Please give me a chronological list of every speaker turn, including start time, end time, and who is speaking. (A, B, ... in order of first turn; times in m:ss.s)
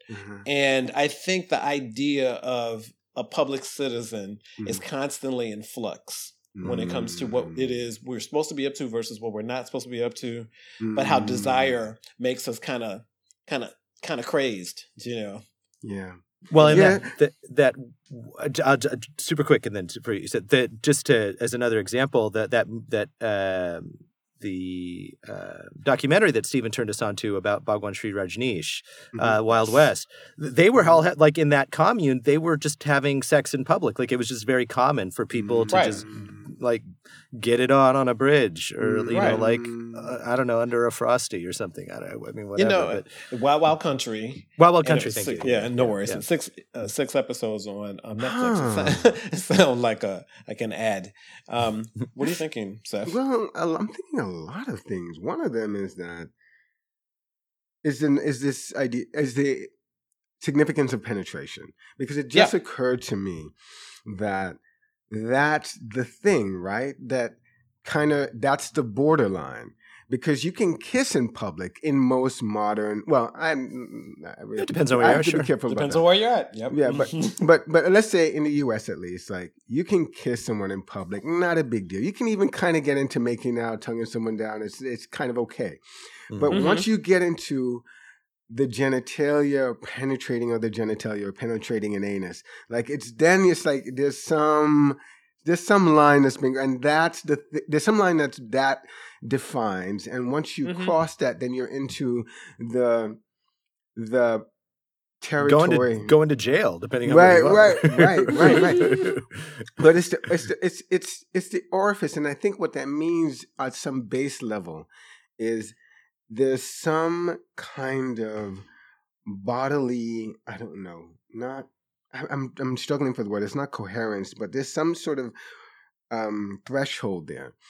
0:00.1-0:00.4 A
0:00.4-0:15.4 B
0:06.5-0:07.8 A
0:10.8-0:11.7 A
0:15.8-0:17.1 A
0:16.5-0:43.1 C
0:16.6-0:16.9 B
0:29.1-0:29.8 A
0:35.3-0:36.4 A
0:35.7-0:36.0 B
0:38.8-0:40.1 A
0:39.1-0:39.4 B
0:42.6-0:53.2 B
0:44.6-0:46.2 C
0:48.2-0:49.0 A
0:53.0-0:56.3 A
0:57.8-0:59.7 A
1:00.4-1:03.5 A
1:04.0-1:04.6 A
1:05.1-1:16.0 A
1:14.6-1:15.5 C
1:15.7-1:17.4 B
1:16.7-1:25.8 A
1:26.3-1:26.6 C
1:26.3-1:27.8 A
1:26.5-1:26.8 B
1:28.5-1:43.2 A
1:40.6-1:40.9 B
1:44.0-1:44.4 A
1:45.2-1:46.1 A
1:45.4-1:49.7 C
1:47.0-1:49.1 A
1:49.8-1:54.9 A
1:55.4-1:55.8 A
1:56.3-1:58.6 A
1:59.2-2:05.3 A
2:06.1-2:07.5 A